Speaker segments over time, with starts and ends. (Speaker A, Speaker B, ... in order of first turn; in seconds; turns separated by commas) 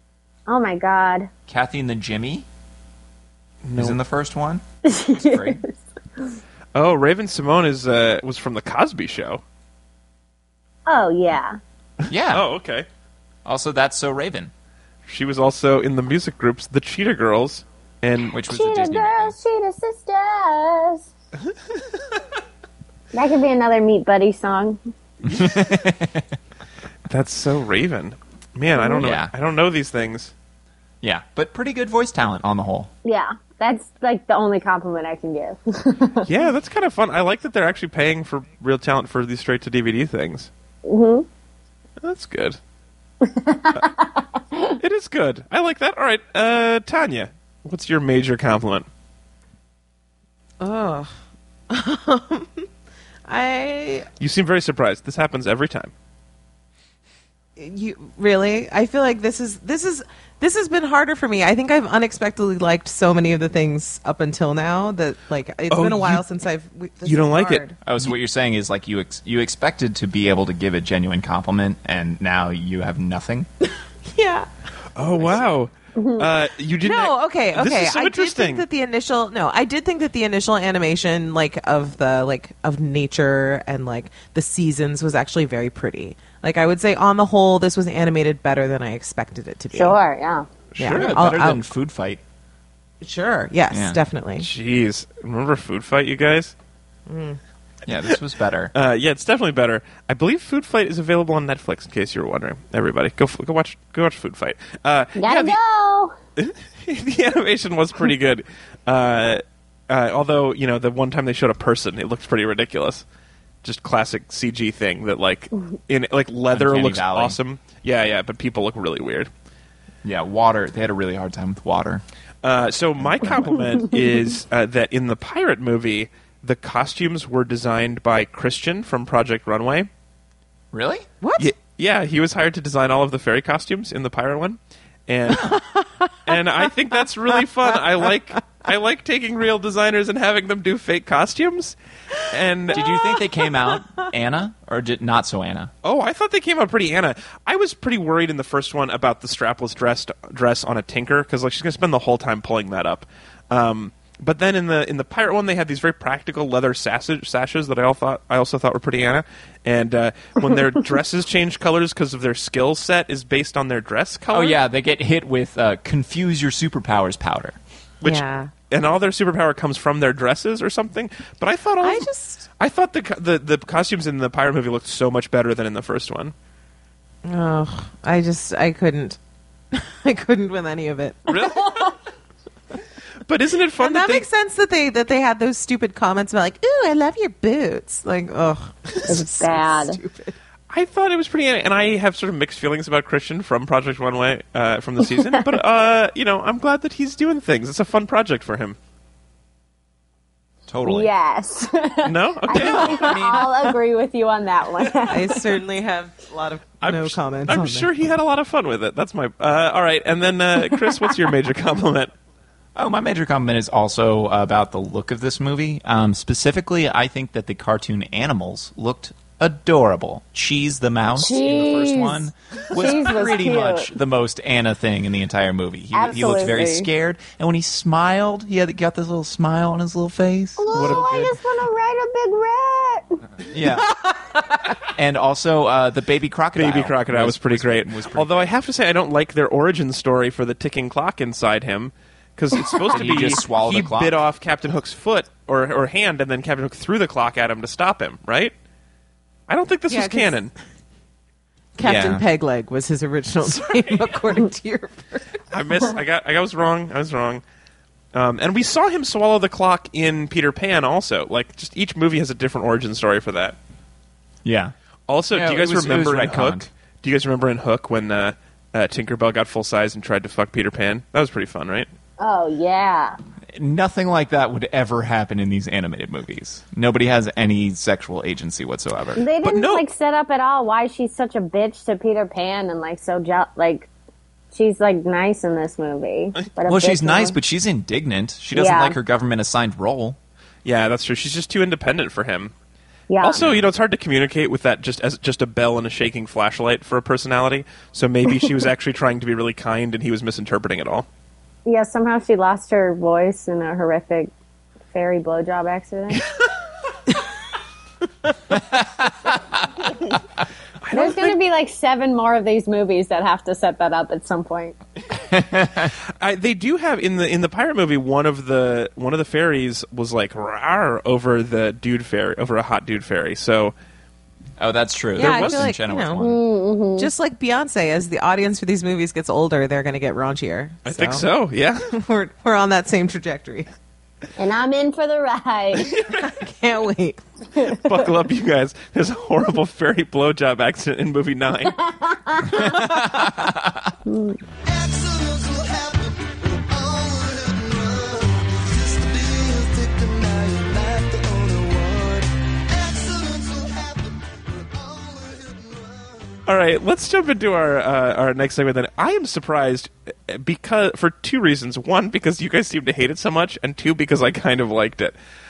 Speaker A: 0.5-1.3, Speaker B: 1.5-2.5, Speaker C: 3.6-4.0, Speaker B: 3.8-4.6, Speaker A: 4.8-5.7, Speaker B: 5.2-5.6, Speaker C: 6.8-9.4, Speaker A: 10.9-11.6, Speaker B: 12.1-12.5, Speaker C: 12.3-12.9, Speaker B: 13.4-14.5, Speaker C: 15.1-18.4, Speaker B: 18.3-19.4, Speaker A: 18.4-21.1, Speaker A: 23.1-24.8, Speaker B: 25.2-26.3, Speaker C: 27.1-30.3, Speaker B: 28.9-29.3, Speaker B: 31.0-32.9, Speaker A: 33.0-36.3, Speaker C: 36.3-40.5, Speaker A: 40.9-41.3, Speaker C: 42.0-42.6, Speaker A: 43.2-44.0, Speaker C: 44.8-48.9, Speaker D: 50.6-51.1, Speaker D: 51.7-52.7, Speaker D: 53.3-54.1, Speaker C: 54.2-55.9, Speaker D: 57.6-68.1, Speaker C: 65.7-66.3, Speaker C: 67.0-67.6, Speaker B: 67.8-73.5, Speaker D: 74.1-74.5, Speaker C: 75.0-78.7, Speaker A: 76.0-76.3, Speaker D: 76.8-90.0, Speaker A: 89.7-90.5, Speaker C: 90.8-91.5, Speaker D: 90.8-91.6, Speaker B: 90.9-92.2, Speaker D: 93.0-94.5, Speaker B: 93.7-94.0, Speaker C: 94.4-96.5, Speaker D: 97.1-97.4, Speaker B: 97.9-98.7, Speaker C: 98.7-105.6, Speaker A: 105.2-106.2, Speaker C: 106.4-113.0, Speaker C: 113.6-119.3, Speaker B: 116.5-117.4, Speaker B: 120.0-122.0, Speaker C: 122.4-129.9, Speaker B: 123.0-123.6, Speaker B: 130.7-131.1, Speaker D: 131.2-131.5, Speaker C: 131.4-135.6, Speaker D: 135.5-135.8, Speaker C: 136.2-141.8, Speaker C: 142.3-142.9, Speaker B: 142.7-145.7, Speaker C: 145.8-164.6, Speaker B: 164.3-167.6, Speaker C: 168.0-172.1, Speaker D: 168.0-168.5, Speaker D: 171.8-172.4, Speaker C: 172.6-176.3, Speaker D: 177.2-179.2, Speaker D: 179.7-181.4, Speaker C: 181.3-181.9, Speaker A: 181.4-181.9, Speaker C: 183.3-184.3, Speaker D: 183.8-190.4, Speaker A: 189.1-190.0, Speaker C: 190.7-198.8, Speaker B: 200.7-201.1, Speaker A: 200.8-205.5, Speaker C: 202.0-203.4, Speaker B: 202.5-203.5, Speaker D: 205.1-207.9, Speaker C: 206.8-212.1, Speaker B: 212.8-231.4, Speaker A: 221.2-223.9, Speaker A: 225.9-226.9, Speaker A: 230.6-233.2, Speaker C: 230.8-231.0, Speaker B: 233.5-234.1, Speaker B: 234.8-238.5, Speaker C: 236.5-248.5, Speaker B: 242.9-244.2, Speaker C: 249.5-250.5, Speaker D: 249.9-250.4, Speaker D: 251.8-255.4, Speaker B: 251.8-252.2, Speaker C: 253.4-254.1, Speaker C: 255.5-257.4, Speaker C: 258.1-263.6, Speaker B: 264.4-264.7, Speaker C: 265.1-271.9, Speaker B: 265.3-266.7, Speaker A: 272.2-273.2, Speaker B: 273.5-279.2, Speaker A: 279.2-283.9, Speaker C: 279.4-279.9, Speaker A: 284.5-287.4, Speaker B: 286.7-290.2, Speaker A: 288.5-289.0, Speaker C: 290.6-292.5, Speaker A: 293.1-293.4, Speaker C: 293.2-301.1, Speaker B: 293.4-293.6, Speaker A: 301.6-304.3, Speaker A: 304.9-306.2, Speaker B: 308.5-309.4, Speaker C: 310.8-311.4, Speaker A: 310.9-314.8, Speaker B: 315.2-315.9, Speaker C: 316.2-323.7, Speaker B: 324.6-326.4, Speaker D: 325.2-326.2, Speaker C: 325.2-325.7, Speaker A: 326.2-327.1, Speaker D: 327.0-331.3, Speaker C: 330.9-331.9, Speaker D: 331.9-333.7, Speaker A: 334.4-336.0, Speaker C: 335.9-336.2, Speaker D: 336.1-337.2, Speaker C: 337.6-341.8, Speaker A: 341.7-342.8, Speaker B: 342.5-343.9, Speaker A: 344.1-344.4, Speaker E: 344.6-356.3, Speaker C: 356.5-365.2